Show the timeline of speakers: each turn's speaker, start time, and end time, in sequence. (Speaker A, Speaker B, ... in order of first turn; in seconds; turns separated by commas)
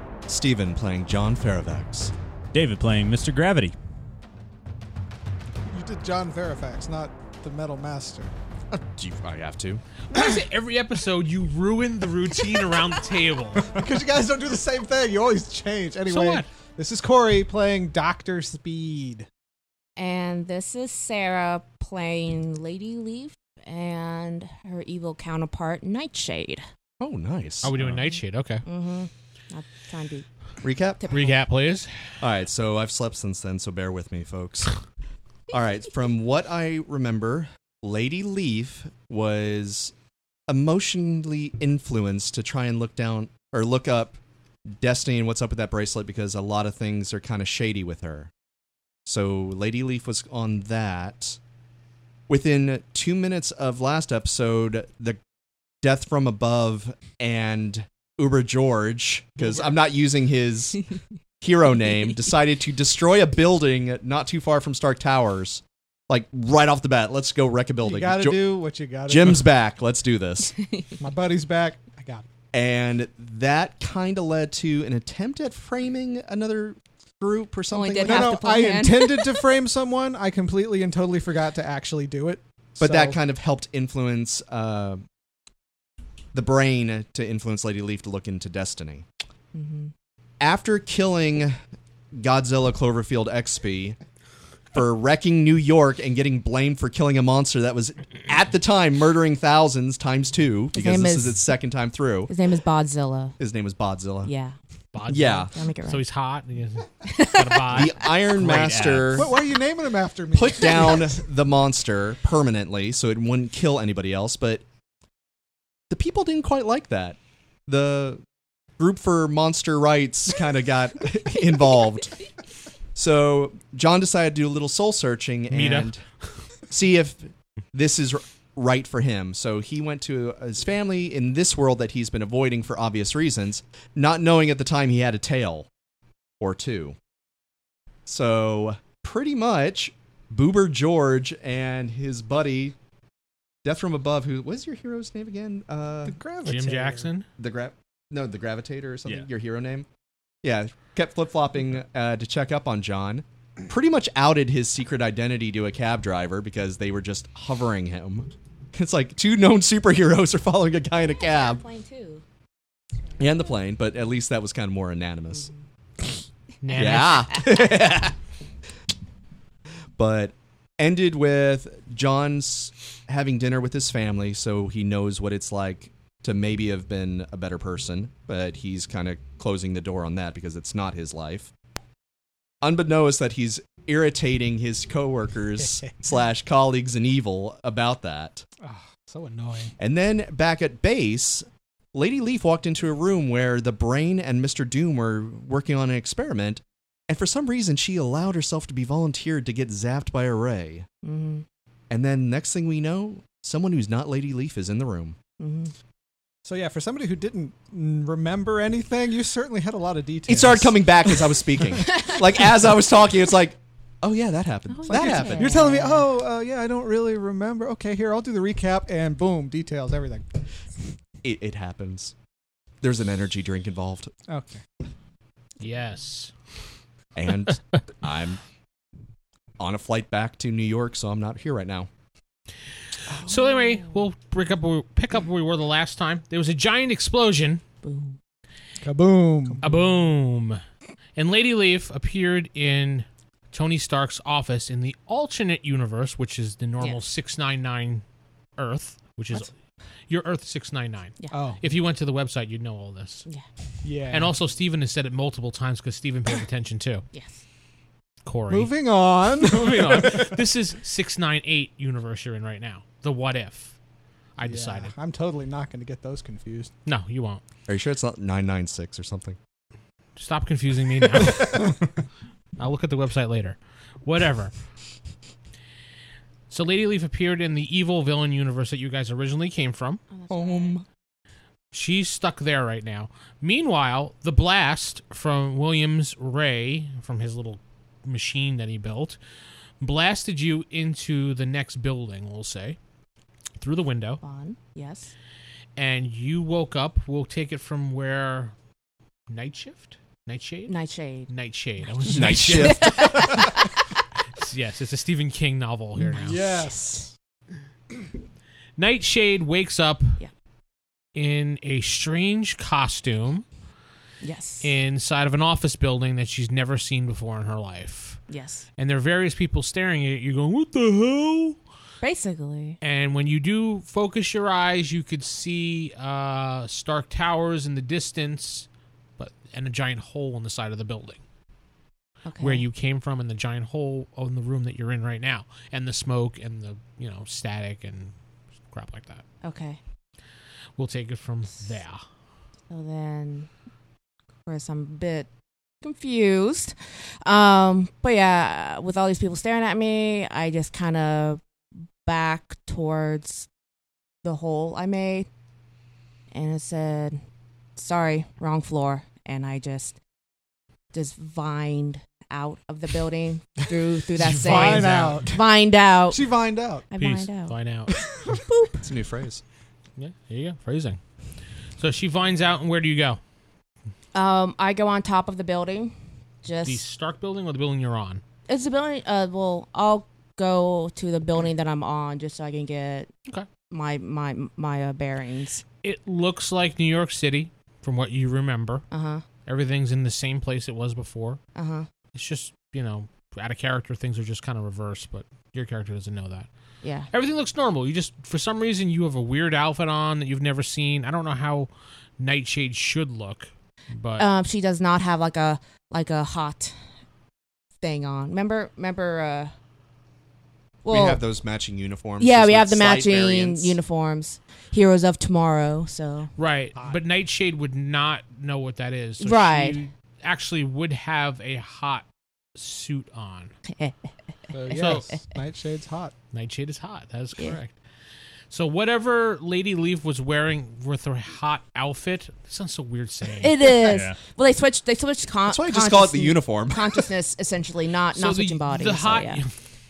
Speaker A: 0.3-2.1, Speaker B: 2.5-3.7, Speaker C: 5.7-8.3, Speaker A: 8.7-9.8, Speaker D: 10.1-13.7, Speaker C: 13.7-19.3, Speaker D: 16.1-16.4, Speaker E: 20.0-26.6, Speaker A: 27.0-27.8, Speaker D: 27.6-28.6, Speaker E: 28.6-30.3, Speaker A: 30.6-31.0, Speaker E: 31.0-31.3, Speaker D: 31.1-31.9, Speaker A: 32.2-34.7, Speaker A: 35.5-39.9, Speaker A: 40.5-44.2, Speaker A: 44.8-48.3, Speaker A: 49.0-51.4, Speaker A: 52.3-55.2, Speaker A: 55.8-60.8, Speaker E: 59.4-59.8, Speaker A: 61.4-70.6, Speaker C: 67.8-69.5, Speaker C: 71.0-72.3, Speaker A: 72.5-78.3, Speaker E: 77.7-79.4, Speaker C: 78.0-83.2, Speaker A: 82.8-85.0, Speaker A: 86.3-89.0, Speaker E: 89.5-89.9, Speaker A: 90.4-91.6, Speaker A: 92.1-94.0, Speaker A: 94.7-102.3, Speaker E: 100.7-101.4, Speaker E: 102.3-103.4, Speaker A: 103.4-104.3, Speaker E: 104.2-104.5, Speaker D: 104.9-108.2, Speaker A: 105.0-105.5, Speaker E: 105.5-106.0, Speaker E: 107.0-107.6, Speaker A: 107.7-109.3, Speaker B: 108.4-109.3, Speaker C: 109.1-111.1, Speaker A: 110.3-114.6, Speaker A: 115.9-118.2, Speaker A: 118.8-122.2, Speaker A: 122.9-126.0, Speaker D: 125.5-125.9, Speaker A: 126.7-135.7, Speaker A: 136.4-136.9, Speaker A: 138.1-142.8, Speaker A: 143.6-146.2, Speaker C: 146.0-147.1, Speaker D: 146.4-147.2, Speaker A: 147.4-149.9, Speaker A: 150.4-161.6, Speaker E: 161.0-162.2, Speaker A: 163.2-165.5, Speaker E: 165.3-165.6, Speaker D: 166.6-167.4, Speaker E: 166.7-167.4, Speaker A: 166.8-168.2, Speaker A: 170.0-181.5, Speaker A: 182.6-188.4, Speaker C: 188.6-189.7, Speaker A: 189.8-200.9, Speaker E: 201.0-201.4, Speaker A: 201.9-205.2, Speaker E: 205.4-205.7, Speaker C: 206.4-210.8, Speaker A: 210.3-215.6, Speaker E: 214.7-216.1, Speaker C: 214.9-220.4, Speaker A: 221.2-222.1, Speaker A: 222.8-224.1, Speaker C: 224.3-224.6, Speaker D: 225.6-226.3, Speaker A: 227.2-228.4, Speaker A: 229.6-231.9, Speaker D: 233.1-237.6, Speaker E: 233.2-234.1, Speaker E: 237.8-238.2, Speaker C: 238.8-239.8, Speaker D: 239.6-240.6, Speaker D: 241.2-248.0, Speaker D: 248.6-249.5, Speaker D: 250.1-253.2, Speaker C: 251.3-251.6, Speaker C: 253.8-254.3, Speaker D: 254.1-257.1, Speaker E: 257.1-257.4, Speaker D: 258.2-258.7, Speaker C: 258.5-260.3, Speaker D: 259.4-263.8, Speaker D: 264.4-264.9, Speaker C: 264.4-266.7, Speaker D: 266.9-267.4, Speaker A: 267.7-269.4, Speaker D: 270.2-271.8, Speaker D: 272.6-274.5, Speaker D: 276.5-280.0, Speaker E: 280.1-280.8, Speaker A: 280.3-280.8, Speaker D: 281.7-289.2, Speaker D: 289.8-292.8, Speaker D: 293.6-294.2, Speaker E: 294.2-295.1, Speaker D: 295.8-298.5, Speaker D: 299.3-303.6, Speaker E: 300.7-301.3, Speaker A: 302.1-303.1, Speaker E: 302.4-303.7, Speaker D: 304.4-306.7, Speaker C: 306.0-307.1, Speaker D: 308.8-310.2, Speaker D: 311.1-313.4, Speaker E: 314.2-314.7, Speaker D: 314.6-318.2, Speaker E: 318.3-318.6, Speaker D: 318.8-321.6, Speaker E: 322.0-322.8, Speaker D: 322.8-331.2, Speaker E: 332.2-332.6, Speaker D: 332.4-338.1, Speaker D: 338.7-339.2, Speaker E: 339.4-339.8, Speaker D: 340.8-342.0, Speaker E: 342.7-343.5, Speaker E: 344.4-345.3, Speaker E: 345.8-351.4, Speaker E: 352.0-353.5, Speaker E: 354.2-355.3, Speaker E: 356.3-357.2, Speaker E: 357.8-360.0, Speaker E: 360.9-366.3, Speaker C: 364.2-365.5, Speaker D: 364.2-365.3, Speaker C: 366.1-366.9, Speaker E: 366.9-367.6, Speaker D: 367.0-367.9, Speaker E: 368.2-368.9, Speaker A: 368.8-369.4, Speaker D: 370.0-371.0, Speaker D: 371.8-373.2, Speaker E: 374.1-376.8, Speaker D: 376.6-378.2, Speaker E: 378.5-383.1, Speaker E: 383.7-385.6, Speaker D: 385.8-388.9, Speaker E: 388.9-389.2, Speaker D: 389.4-391.4, Speaker E: 391.6-391.9, Speaker D: 392.1-396.5, Speaker E: 396.8-397.1, Speaker D: 397.1-404.2, Speaker E: 404.2-406.8, Speaker E: 407.8-409.5, Speaker E: 410.8-411.2, Speaker A: 410.9-413.8, Speaker E: 412.2-416.3, Speaker D: 416.4-423.5, Speaker E: 419.2-419.9, Speaker E: 423.6-423.9, Speaker C: 424.5-426.1, Speaker D: 424.7-425.1, Speaker D: 426.3-427.8, Speaker D: 428.5-433.7, Speaker E: 433.4-439.4, Speaker B: 433.9-434.2, Speaker A: 435.5-437.1, Speaker D: 438.1-439.6